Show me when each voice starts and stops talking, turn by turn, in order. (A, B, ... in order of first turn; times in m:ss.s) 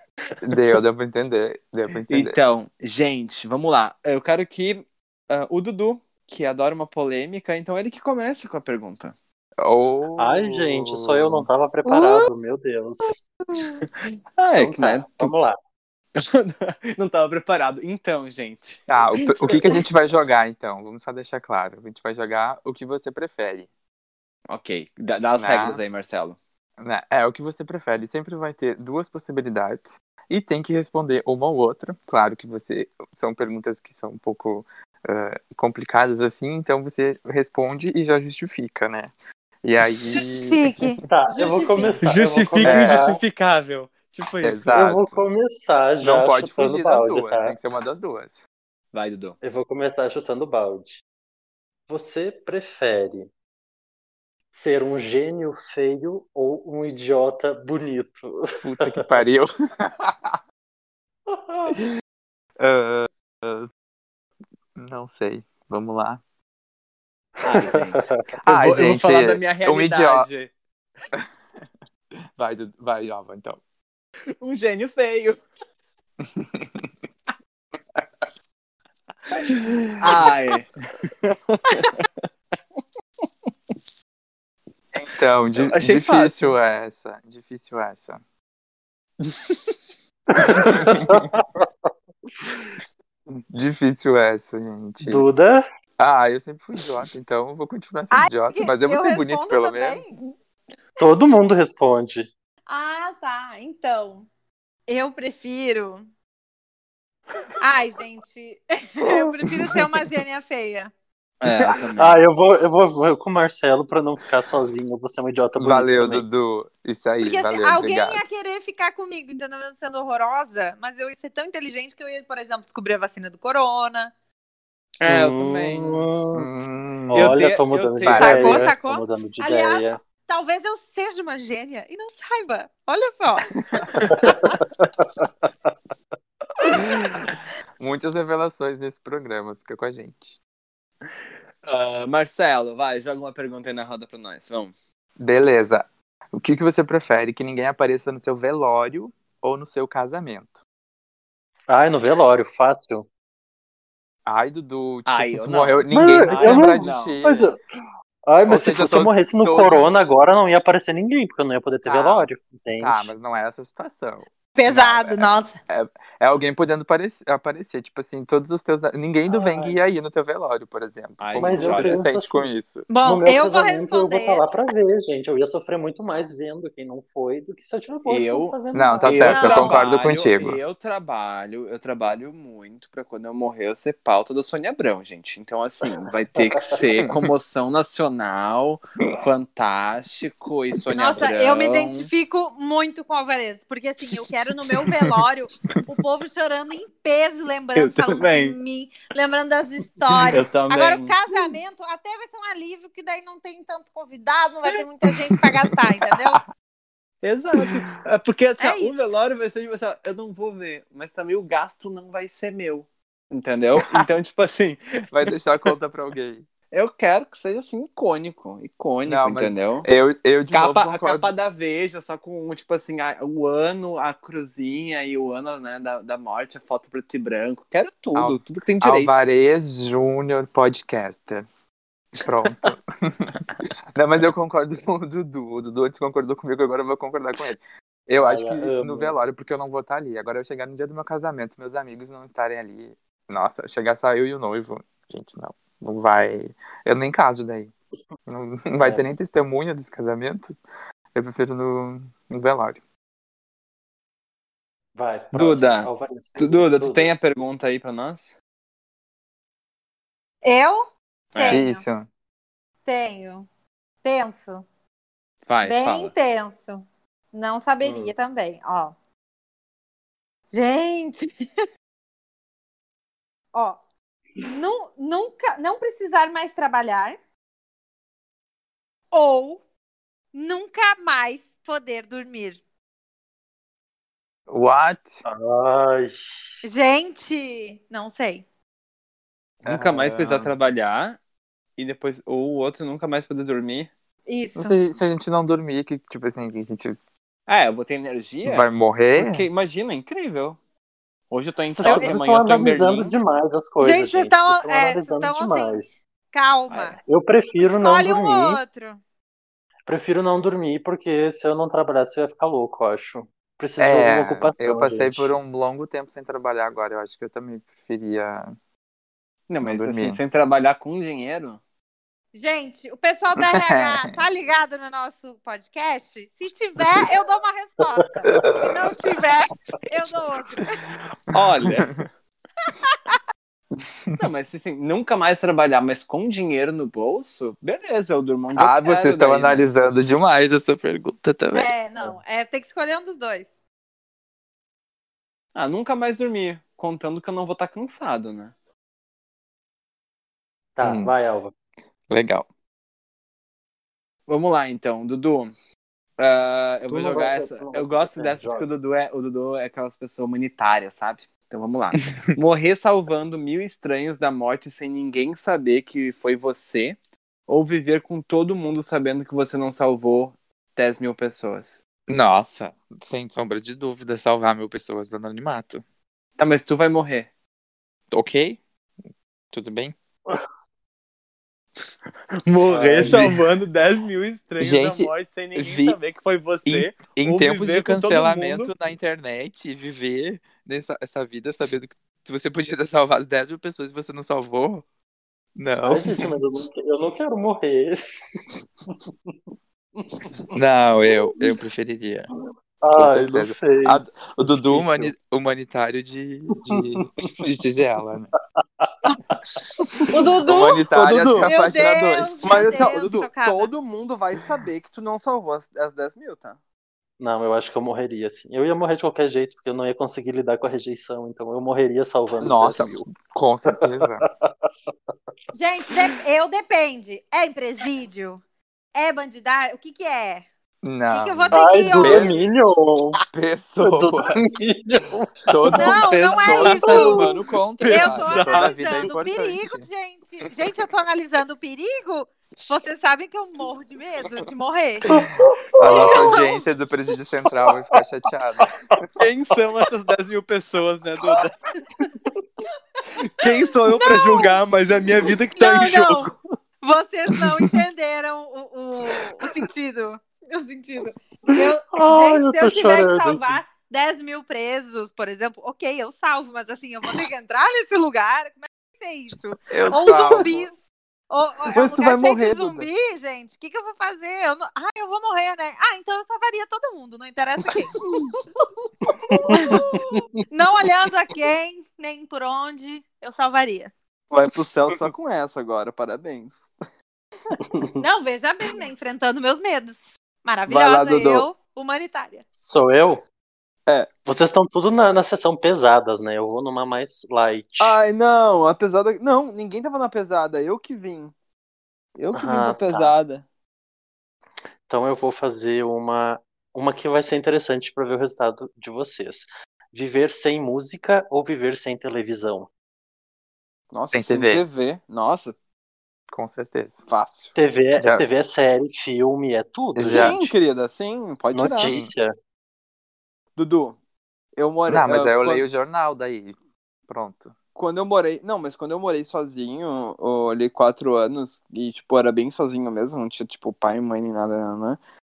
0:00.4-0:02.4 A
0:02.1-0:09.1 B
0:09.6-0:11.5 A
0:10.2-0:13.2 C
0:13.5-0:15.4 B
0:14.6-0:15.6 C
0:16.2-0:19.8 B
0:18.9-0:23.7 A
0:24.5-0:26.4 B
0:25.4-0:25.8 A
0:26.8-0:39.1 A
0:39.6-0:40.6 A
0:40.1-0:42.0 D
0:41.1-0:43.2 C
0:42.0-0:44.8 B
0:42.6-0:43.1 A
0:44.4-0:45.2 A
0:44.7-0:47.6 C
0:46.0-0:48.4 A
0:48.9-0:49.4 B
0:49.4-0:51.0 C
0:51.9-0:53.3 C
0:54.5-0:59.0 C
0:58.6-1:00.4 A
1:01.3-1:01.8 C
1:02.6-1:03.7 A
1:04.8-1:06.2 A
1:07.4-1:10.5 B
1:07.5-1:08.1 C
1:08.4-1:10.3 A
1:12.4-1:13.6 A
1:14.4-1:15.4 B
1:16.2-1:16.9 A
1:19.4-1:22.2 B
1:24.9-1:28.2 A
1:25.6-1:26.6 B
1:29.2-1:29.7 B
1:30.3-1:31.7 C
1:30.6-1:31.2 A
1:33.3-1:35.3 A
1:35.0-1:35.6 C
1:36.0-1:40.2 A
1:38.1-1:40.2 D
1:41.0-1:42.3 C
1:42.7-1:44.3 D
1:44.9-1:46.0 D
1:47.6-1:50.9 D
1:51.4-1:52.2 B
1:52.0-1:56.2 C
1:55.6-1:58.2 A
1:57.2-2:04.1 D
2:05.0-2:06.1 B
2:05.1-2:06.5 C
2:06.3-2:07.3 A
2:07.1-2:10.0 C
2:07.1-2:08.6 B
2:08.0-2:08.7 A
2:08.1-2:13.5 D
2:13.7-2:14.0 A
2:14.0-2:14.3 B
2:14.2-2:15.5 C
2:16.7-2:20.4 A
2:21.6-2:24.7 B
2:25.2-2:30.6 A
2:31.7-2:33.1 C
2:34.3-2:37.5 A
2:35.1-2:37.5 B
2:35.9-2:37.6 C
2:38.3-2:43.1 C
2:38.5-2:39.9 A
2:41.8-2:42.3 A
2:42.8-2:52.9 A
2:44.6-2:45.6 D
2:49.3-2:49.8 C
2:51.2-2:52.0 B
2:51.4-2:52.5 C
2:52.9-2:54.4 D
2:53.0-2:59.8 C
2:58.1-3:12.1 B
2:58.7-3:00.6 A
2:59.3-2:59.8 D
3:10.9-3:26.4 D
3:17.8-3:18.6 B
3:20.3-3:21.2 B
3:27.2-3:35.3 B
3:28.6-3:29.1 D
3:35.1-3:36.4 A
3:36.7-3:39.9 B
3:39.0-3:41.3 A
3:40.5-3:49.2 B
3:48.2-3:51.5 A
3:52.2-3:53.4 A
3:54.0-4:07.7 A
3:58.2-3:59.2 C
4:08.3-4:10.6 A
4:08.8-4:09.1 C
4:11.2-4:12.8 A
4:15.0-4:17.1 C
4:15.3-4:18.3 B
4:20.4-4:21.8 D
4:21.3-4:21.6 B
4:21.5-4:22.1 A
4:22.8-4:23.5 D
4:24.0-4:24.6 D
4:25.5-4:26.1 B
4:25.6-4:28.9 D
4:30.5-4:31.3 D
4:33.5-4:33.8 D
4:34.4-4:37.2 D
4:39.1-4:39.6 D
4:40.3-4:42.6 D
4:44.5-4:45.2 A
4:45.2-4:46.2 C
4:46.6-4:48.4 D
4:49.6-4:50.5 A
4:49.6-4:51.2 B
4:51.8-4:53.9 B
4:54.3-4:54.8 D
4:54.6-4:57.0 A
4:57.5-5:00.6 B
4:58.4-4:59.5 A
5:01.3-5:03.2 B
5:01.7-5:06.0 C
5:01.8-5:02.1 A
5:03.8-5:07.0 D
5:06.7-5:07.0 B
5:07.0-5:08.6 C
5:07.7-5:09.0 D
5:09.9-5:15.3 C
5:13.8-5:18.5 A
5:19.5-5:21.6 B
5:19.6-5:20.2 A
5:22.3-5:30.8 D
5:23.4-5:23.9 A
5:28.3-5:28.9 A
5:31.3-5:32.1 B
5:31.6-5:31.9 A
5:32.8-5:33.2 D
5:34.2-5:39.6 B
5:38.6-5:41.7 A
5:41.5-5:43.5 D
5:45.6-5:48.5 B
5:50.8-5:51.5 C
5:50.8-5:51.1 A
5:52.1-5:52.5 A
5:54.3-5:55.5 B
5:56.2-6:11.8 B
5:56.9-5:58.7 C
6:12.1-6:15.8 A
6:16.4-6:17.3 B
6:18.1-6:18.6 A
6:19.5-6:19.9 A
6:22.5-6:28.7 B
6:22.7-6:23.3 C
6:23.0-6:23.4 A
6:24.6-6:26.0 A
6:26.7-6:34.8 A
6:35.6-6:36.3 A
6:35.8-6:39.3 C
6:40.0-6:40.3 C
6:40.5-6:42.3 A
6:42.8-6:45.1 C
6:43.0-6:48.3 A
6:46.7-6:47.0 C
6:48.8-6:49.4 C
6:49.6-6:50.1 B
6:50.1-6:50.8 D
6:50.5-6:52.7 A
6:50.9-6:51.5 B
6:51.4-6:53.7 D
6:52.4-6:56.6 B
6:57.2-7:03.0 C
7:02.4-7:04.3 A
7:03.7-7:04.7 C
7:05.5-7:08.4 D
7:09.0-7:10.4 D
7:10.8-7:12.4 A
7:11.1-7:12.5 D
7:11.5-7:13.2 C
7:13.3-7:14.6 A
7:13.8-7:15.9 C
7:15.5-7:19.9 A
7:15.7-7:17.2 D
7:15.9-7:19.1 B
7:17.9-7:25.1 D
7:25.1-7:26.3 C
7:25.8-7:29.0 A
7:25.9-7:26.4 B
7:26.0-7:26.4 D
7:29.2-7:31.6 B
7:33.2-7:36.4 B
7:34.0-7:34.6 D
7:35.6-7:58.0 D
7:41.9-7:43.6 C
7:49.7-7:50.6 A
7:50.1-7:50.5 B
7:51.7-7:52.9 B
7:59.1-8:00.3 C
7:59.5-8:03.9 D
8:04.3-8:06.7 B
8:08.0-8:12.4 D
8:10.7-8:11.5 B
8:12.6-8:13.2 C
8:14.3-8:18.0 C
8:17.8-8:21.3 B
8:22.2-8:23.4 B
8:22.4-8:23.1 C
8:24.9-8:32.7 C
8:33.9-8:35.6 B
8:34.1-8:34.6 A
8:36.3-8:37.1 A
8:37.1-8:37.5 B
8:37.6-8:40.5 C
8:38.0-8:38.2 A
8:40.0-8:40.4 A
8:40.1-8:42.0 B
8:41.5-8:42.3 C
8:41.8-8:42.1 A
8:43.6-8:44.0 B
8:44.6-8:45.6 B
8:44.9-8:46.6 A
8:47.1-8:47.5 A
8:47.8-8:55.0 B